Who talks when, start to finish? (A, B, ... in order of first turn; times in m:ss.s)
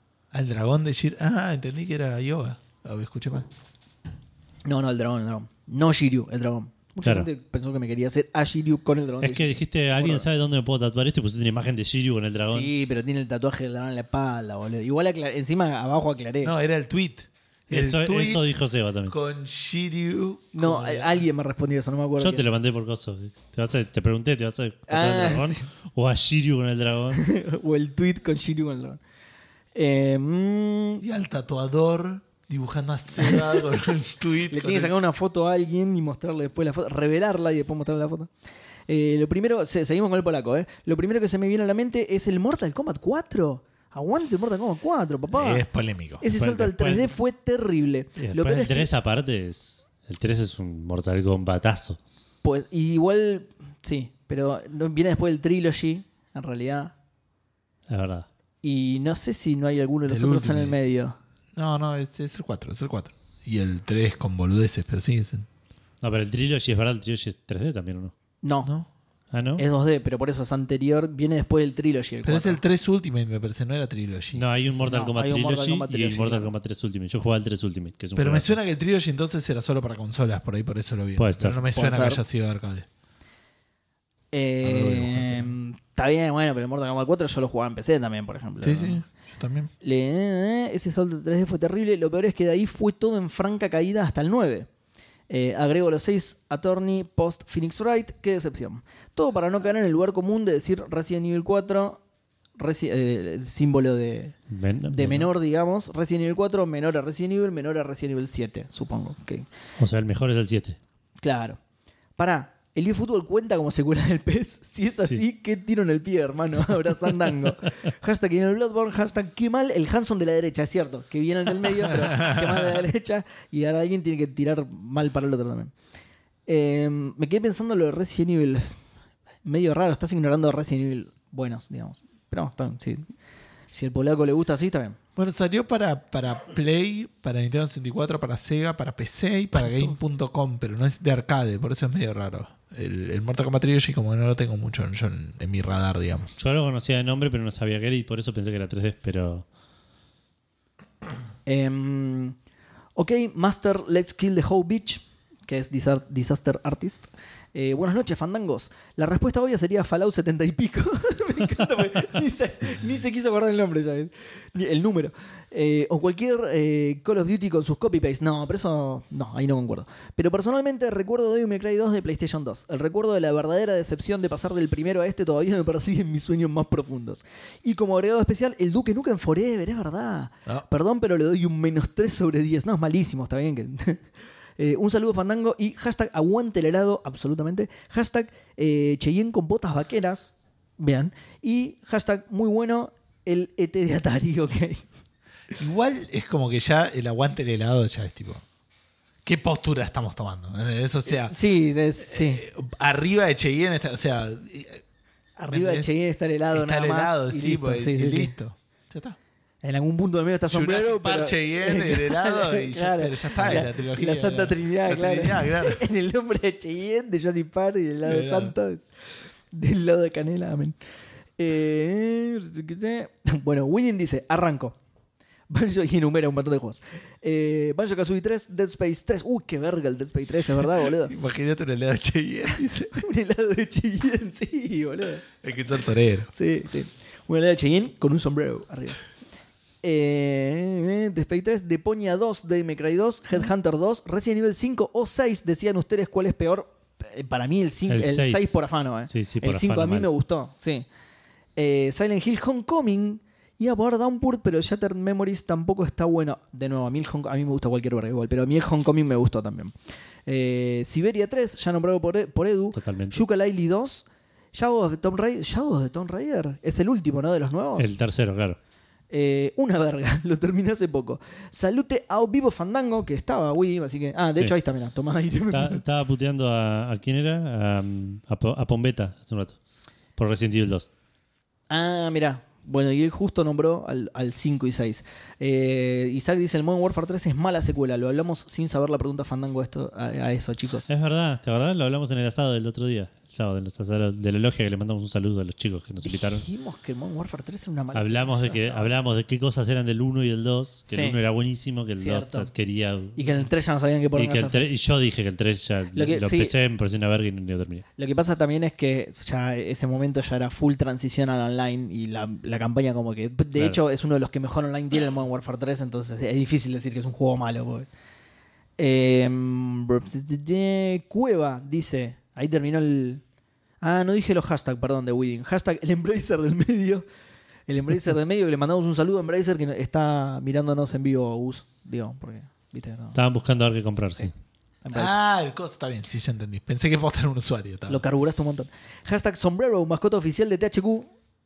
0:00.3-0:03.5 A
0:04.6-0:10.2 B
0:09.2-0:12.7 C
0:12.4-0:16.5 B
0:16.4-0:18.5 A
0:17.7-0:19.1 C
0:19.1-0:21.2 A
0:20.5-0:22.4 B
0:22.2-0:27.2 C
0:24.9-0:25.7 B
0:27.1-0:29.0 B
0:29.7-0:31.0 B
0:31.0-0:35.0 A
0:33.2-0:33.6 B
0:34.5-0:38.3 B
0:38.9-0:45.6 B
0:45.3-0:46.2 A
0:46.2-0:48.9 B
0:46.3-0:47.2 C
0:48.2-0:52.0 C
0:52.4-0:56.9 B
0:57.9-0:58.3 C
0:58.6-1:01.2 B
1:00.1-1:00.8 A
1:01.6-1:05.5 A
1:06.0-1:08.1 C
1:08.4-1:08.7 B
1:09.3-1:09.6 C
1:09.6-1:12.6 B
1:12.2-1:14.5 A
1:14.3-1:18.6 C
1:14.8-1:16.5 B
1:18.2-1:22.8 A
1:21.2-1:21.6 C
1:21.7-1:22.2 B
1:24.3-1:29.0 B
1:24.6-1:25.5 A
1:28.6-1:29.7 A
1:29.8-1:34.7 B
1:35.3-1:42.0 B
1:42.6-1:44.4 B
1:44.5-1:45.3 C
1:44.9-1:49.4 B
1:49.8-1:50.8 C
1:51.2-1:51.6 B
1:52.2-2:05.7 B
2:06.5-2:08.8 B
2:09.4-2:13.0 B
2:13.7-2:15.0 B
2:15.2-2:26.4 A
2:19.7-2:19.9 B
2:26.4-2:29.4 C
2:31.4-2:32.4 B
2:33.0-3:04.0 B
3:04.6-3:14.8 B
3:15.6-3:18.4 A
3:19.2-3:21.3 A
3:21.1-3:22.4 B
3:22.0-3:24.8 A
3:25.4-3:28.3 B
3:25.5-3:25.9 A
3:26.5-3:29.2 A
3:29.6-3:38.8 B
3:30.5-3:35.8 A
3:38.0-3:38.5 A
3:39.5-3:40.8 B
3:41.4-3:44.8 B
3:45.5-3:51.1 B
3:51.0-3:53.0 A
3:52.9-3:55.2 B
3:55.4-3:56.3 A
3:56.3-3:59.0 B
3:59.8-4:10.9 B
4:07.9-4:08.6 C
4:09.1-4:10.1 C
4:11.6-4:19.7 B
4:20.3-4:27.9 B
4:22.7-4:23.2 C
4:27.8-4:28.6 C
4:29.1-4:35.8 B
4:35.5-4:39.6 C
4:40.2-4:40.9 C
4:41.7-4:50.9 B
4:50.9-4:56.4 C
4:56.0-4:58.8 B
4:57.9-5:03.5 C
5:00.9-5:01.2 B
5:01.9-5:02.5 B
5:03.2-5:04.6 B
5:04.2-5:07.8 C
5:05.9-5:06.5 B
5:08.0-5:17.9 B
5:18.8-5:23.2 B
5:23.8-5:27.0 B
5:27.7-5:33.2 B
5:33.1-5:34.3 C
5:34.8-5:35.1 B
5:34.9-5:38.0 A
5:37.9-5:41.1 B